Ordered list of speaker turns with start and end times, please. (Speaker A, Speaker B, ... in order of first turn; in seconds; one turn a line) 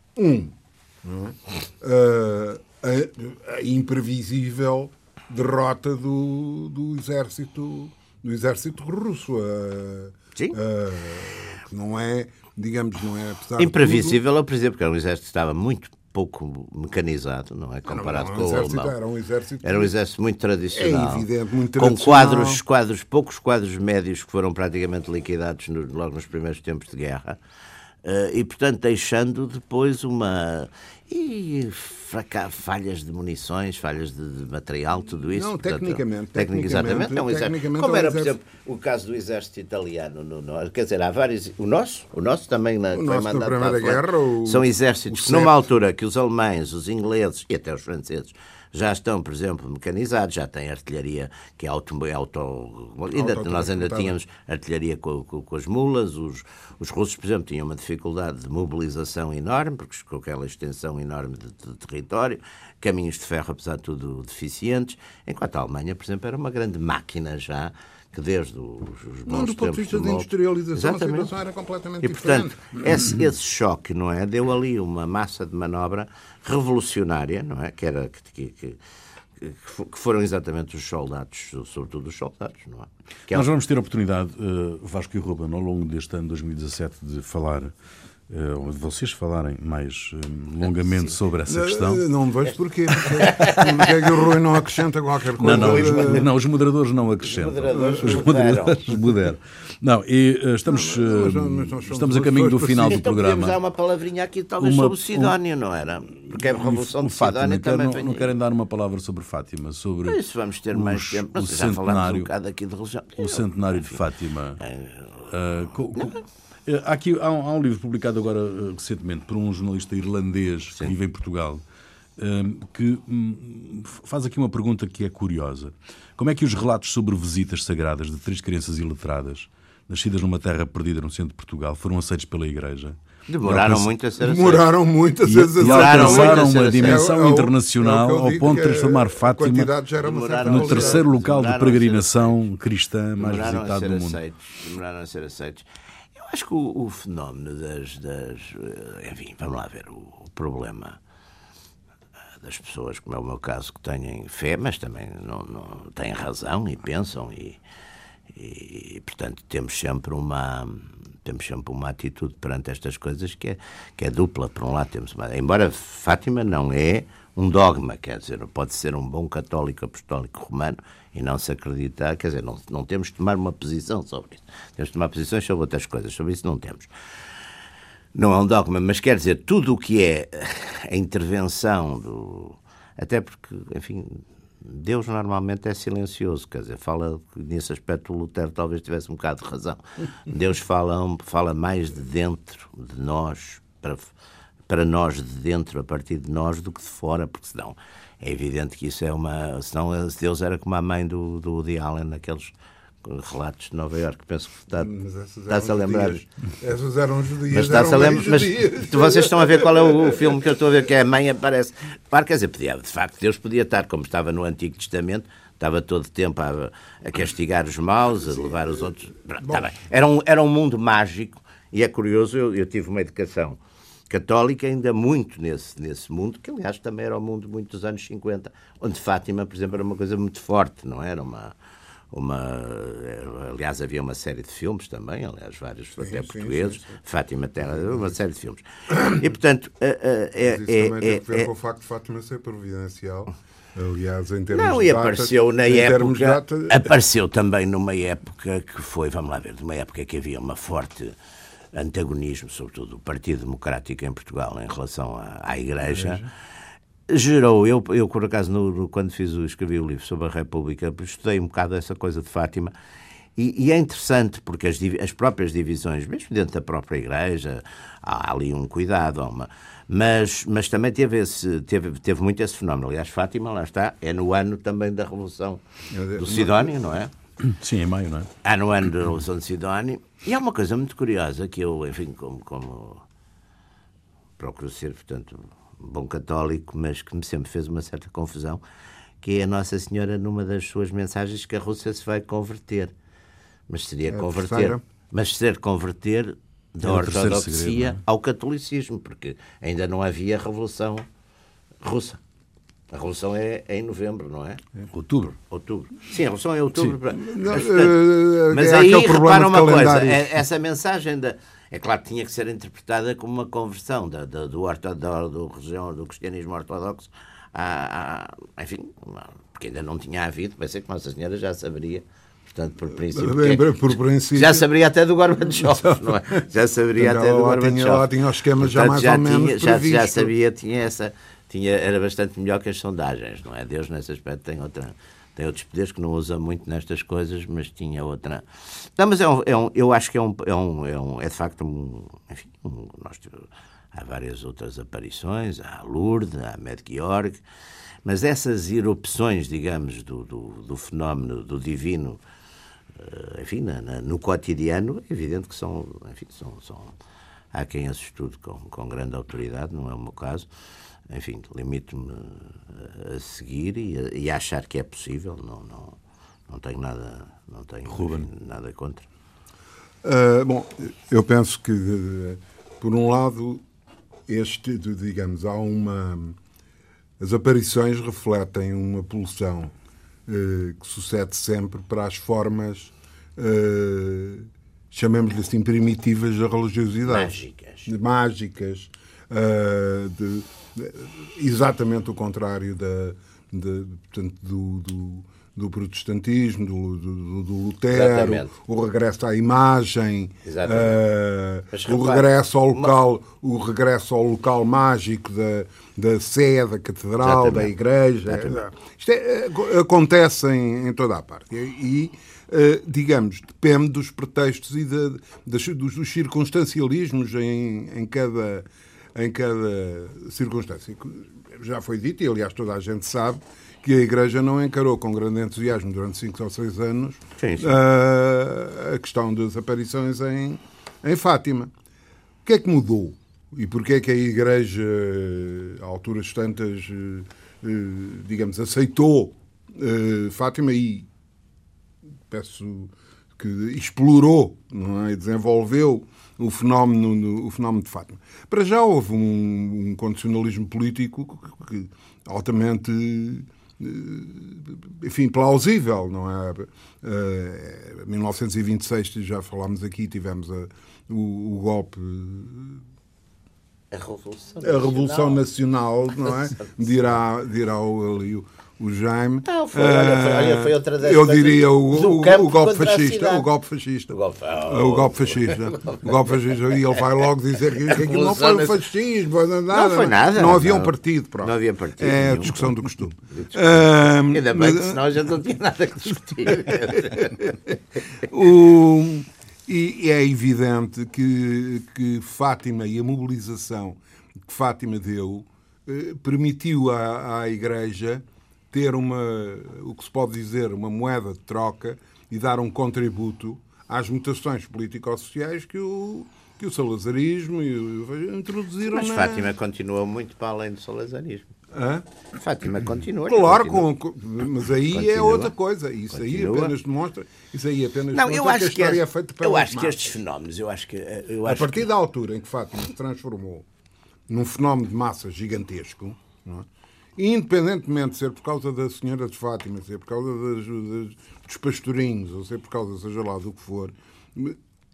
Speaker A: 0.1-14.2
Speaker B: 13.6-18.9
Speaker A: 17.9-19.9
Speaker B: 19.6-27.4
Speaker A: 20.7-22.6
Speaker B: 28.0-71.3
Speaker A: 35.3-38.3
Speaker A: 42.9-45.6
Speaker A: 53.1-54.1
Speaker A: 69.3-73.1
Speaker B: 72.0-78.8
Speaker B: 79.4-83.5
Speaker C: 83.3-87.7
Speaker C: 88.3-92.0
Speaker A: 91.5-96.3
Speaker C: 93.0-93.6
Speaker B: 93.0-94.2
Speaker C: 95.4-103.6
Speaker B: 95.4-96.3
Speaker B: 97.2-99.0
Speaker A: 97.7-98.3
Speaker A: 100.7-103.0
Speaker B: 102.8-108.3
Speaker C: 104.6-105.3
Speaker C: 106.3-112.3
Speaker B: 110.0-114.0
Speaker C: 113.2-114.6
Speaker B: 114.6-115.3
Speaker C: 115.3-121.6
Speaker B: 115.9-116.2
Speaker C: 122.2-133.9
Speaker B: 133.3-134.7
Speaker A: 134.2-141.0
Speaker C: 135.2-139.7
Speaker B: 135.6-137.0
Speaker B: 140.0-142.4
Speaker C: 140.4-144.2
Speaker B: 143.2-151.0
Speaker B: 152.4-157.6
Speaker B: 158.3-176.9
Speaker B: 178.1-194.1
Speaker B: 194.7-204.9
Speaker A: 204.8-210.6
Speaker B: 205.5-206.2
Speaker B: 207.5-231.5
Speaker A: 218.2-218.9
Speaker B: 232.1-241.5
Speaker A: 236.0-237.0
Speaker A: 237.7-238.1
Speaker A: 238.9-239.2
Speaker A: 240.4-246.9
Speaker B: 244.5-251.1
Speaker B: 251.7-256.2
Speaker A: 255.9-256.2
Speaker B: 257.1-262.7
Speaker B: 263.4-275.6
Speaker A: 275.9-276.7
Speaker B: 276.1-277.1
Speaker C: 277.4-278.3
Speaker B: 278.4-283.0
Speaker B: 284.4-288.6
Speaker B: 289.2-292.9
Speaker B: 293.7-301.1
Speaker A: 294.1-294.8
Speaker C: 296.8-298.0
Speaker B: 301.8-302.2
Speaker B: 302.9-304.6
Speaker C: 304.9-305.3
Speaker B: 305.3-347.4
Speaker A: 307.1-310.4
Speaker A: 322.9-324.6
Speaker A: 325.4-326.4
Speaker A: 327.0-330.3
Speaker B: 348.0-352.2
Speaker B: 352.9-356.9
Speaker B: 357.5-360.5
Speaker B: 361.1-369.1
Speaker C: 367.9-368.3
Speaker A: 370.0-373.6
Speaker A: 374.3-376.4
Speaker A: 377.2-379.7
Speaker A: 380.2-431.7
Speaker B: 387.1-387.9
Speaker B: 397.9-398.5
Speaker B: 400.4-401.0
Speaker B: 401.7-402.9
Speaker B: 407.2-407.7
Speaker B: 408.3-408.6
Speaker B: 427.4-427.8
Speaker A: 432.4-441.1
Speaker A: 442.3-462.8
Speaker B: 463.9-465.4
Speaker A: 464.6-485.0
Speaker B: 469.4-473.4
Speaker B: 474.1-477.0
Speaker B: 477.8-478.8
Speaker B: 479.7-483.7
Speaker B: 484.3-487.6
Speaker A: 486.4-509.5
Speaker B: 508.9-511.5
Speaker A: 511.7-512.0
Speaker B: 512.3-513.9
Speaker A: 513.2-520.1
Speaker B: 514.9-515.5
Speaker B: 516.1-516.7
Speaker B: 518.1-521.9
Speaker A: 521.4-523.6
Speaker A: 524.3-534.6